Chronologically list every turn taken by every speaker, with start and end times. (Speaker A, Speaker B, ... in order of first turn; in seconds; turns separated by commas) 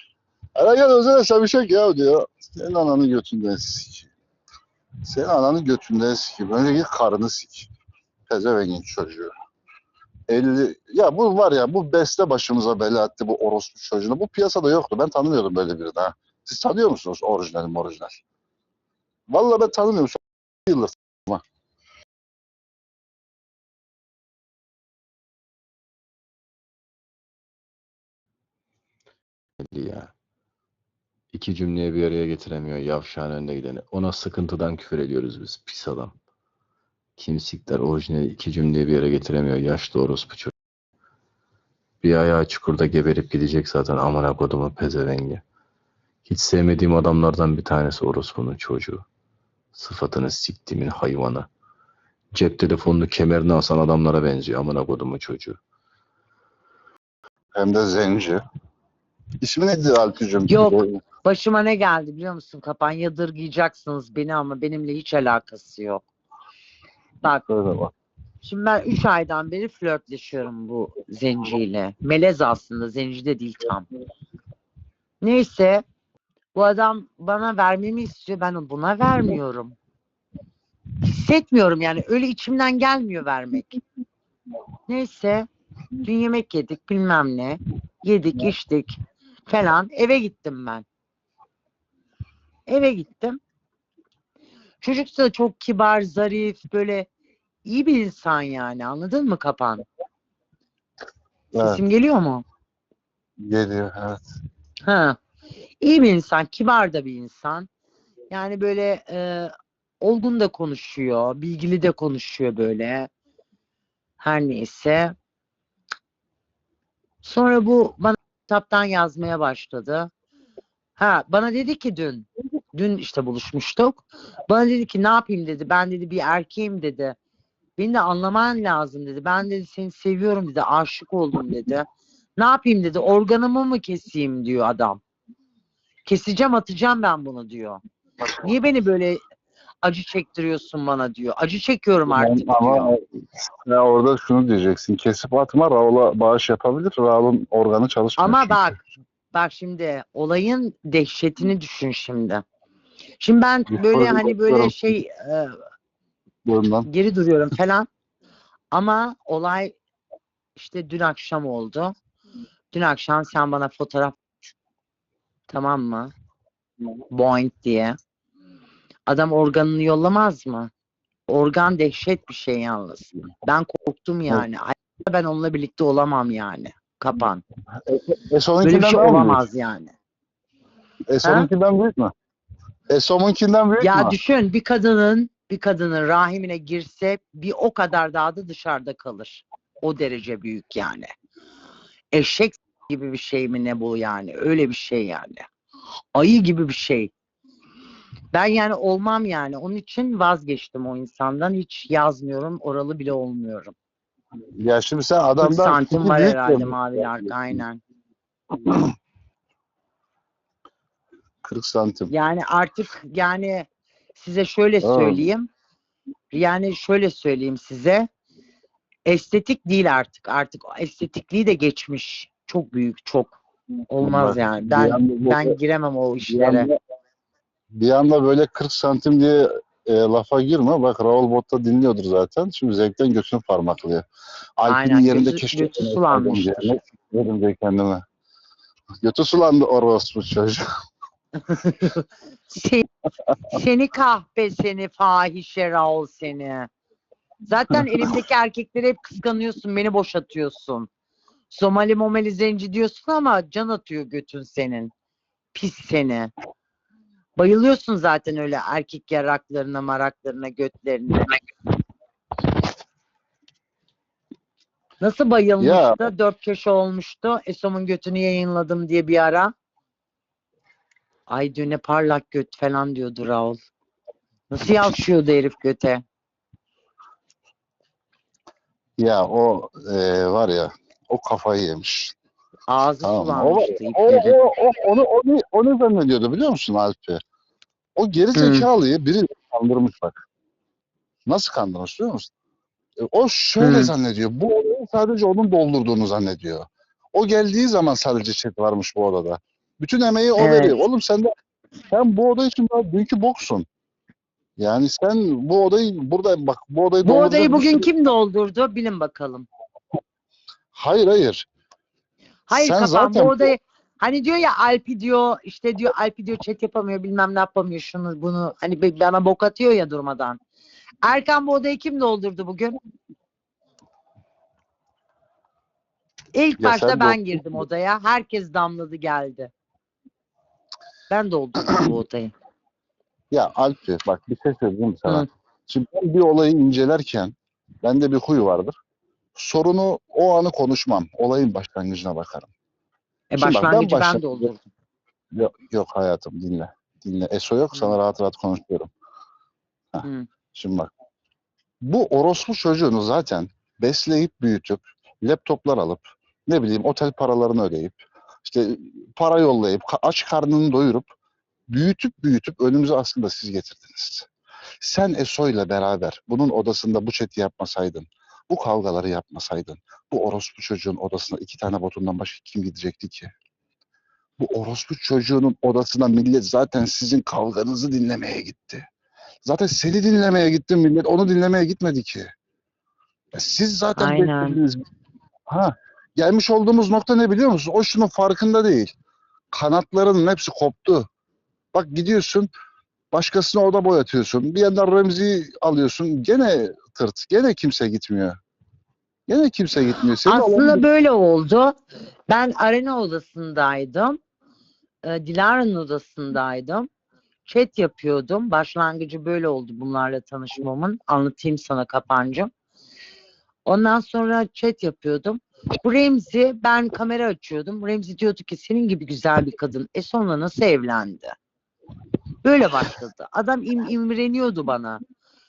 Speaker A: 0.6-4.1, Speaker A: 5.0-7.7, Speaker A: 8.3-9.3, Speaker A: 10.3-18.2, Speaker A: 19.3-21.4, Speaker B: 29.6-30.1, Speaker B: 31.3-36.1, Speaker B: 37.2-40.5, Speaker B: 42.0-45.4, Speaker B: 46.2-49.0, Speaker B: 49.7-51.5, Speaker B: 52.3-55.6, Speaker A: 57.5-58.4, Speaker A: 59.4-61.0, Speaker C: 60.5-66.0, Speaker A: 67.4-67.9, Speaker C: 68.4-73.9, Speaker C: 75.2-75.8, Speaker C: 76.5-79.8, Speaker C: 81.0-83.8, Speaker C: 84.9-85.5, Speaker C: 86.0-90.8, Speaker C: 92.7-93.4, Speaker C: 94.8-97.1, Speaker C: 97.6-99.8, Speaker C: 101.5-102.4, Speaker A: 101.5-101.8, Speaker A: 103.4-104.3, Speaker C: 104.8-105.2, Speaker C: 105.8-107.7, Speaker C: 108.3-113.1, Speaker C: 114.2-115.1, Speaker C: 117.2-120.1, Speaker C: 121.0-127.1, Speaker C: 127.8-131.8, Speaker C: 132.4-135.0, Speaker C: 136.0-137.8, Speaker C: 138.4-139.2, Speaker C: 139.8-142.9, Speaker A: 142.1-148.7, Speaker C: 148.2-148.8, Speaker C: 149.3-152.4, Speaker C: 153.2-155.5, Speaker A: 153.7-154.9, Speaker A: 156.4-156.9, Speaker C: 156.8-157.9, Speaker C: 158.7-159.7, Speaker C: 160.6-161.9, Speaker C: 162.7-164.2, Speaker C: 165.5-166.1, Speaker C: 167.1-168.0, Speaker C: 169.1-170.7, Speaker C: 171.3-177.4, Speaker A: 177.8-179.4, Speaker C: 178.6-179.9, Speaker A: 181.1-182.1, Speaker A: 182.9-184.1, Speaker C: 183.8-191.1, Speaker C: 192.1-195.4, Speaker C: 196.1-197.1, Speaker C: 198.3-203.7, Speaker A: 204.6-206.8, Speaker C: 205.4-207.8, Speaker A: 208.6-208.9, Speaker A: 211.4-212.1, Speaker C: 212.1-215.5, Speaker A: 214.8-215.3, Speaker C: 216.3-218.1, Speaker C: 219.1-223.4, Speaker C: 223.9-226.7, Speaker A: 224.0-225.6, Speaker A: 226.2-226.8, Speaker A: 227.7-234.0, Speaker A: 234.6-238.0, Speaker C: 234.7-236.8, Speaker A: 239.0-240.6, Speaker C: 241.5-242.8, Speaker C: 243.5-246.7, Speaker C: 247.5-250.9, Speaker C: 251.5-254.9, Speaker C: 255.5-256.3, Speaker C: 257.4-261.4, Speaker C: 265.0-269.5, Speaker A: 265.6-266.0, Speaker C: 271.3-273.6, Speaker C: 274.5-276.0, Speaker A: 279.0-282.1, Speaker C: 282.7-284.4, Speaker A: 283.0-287.2, Speaker A: 288.0-290.2, Speaker C: 288.3-288.6, Speaker A: 291.3-292.3, Speaker A: 293.0-301.3, Speaker C: 293.6-293.9, Speaker C: 300.4-300.8, Speaker A: 301.9-303.6, Speaker A: 304.6-307.9, Speaker C: 307.0-309.5, Speaker A: 310.7-311.5, Speaker C: 312.5-320.4, Speaker A: 312.5-313.5, Speaker C: 321.0-322.8, Speaker C: 326.3-329.5, Speaker A: 326.6-327.6, Speaker C: 331.1-332.3, Speaker A: 333.3-338.7, Speaker A: 339.4-342.5, Speaker C: 343.3-344.7, Speaker A: 343.4-344.5, Speaker A: 345.3-348.9, Speaker A: 349.9-350.9, Speaker A: 351.8-361.1, Speaker A: 361.7-364.3, Speaker A: 364.8-373.3, Speaker A: 374.4-378.8, Speaker A: 379.4-382.3, Speaker A: 383.3-384.8, Speaker C: 384.0-384.6, Speaker A: 385.5-388.9, Speaker A: 389.5-391.1, Speaker A: 391.7-392.5, Speaker A: 393.1-398.4, Speaker A: 399.3-400.8, Speaker C: 400.2-401.7, Speaker C: 402.3-404.2, Speaker C: 405.0-406.9, Speaker C: 407.4-412.5, Speaker C: 413.6-421.4, Speaker C: 422.4-425.0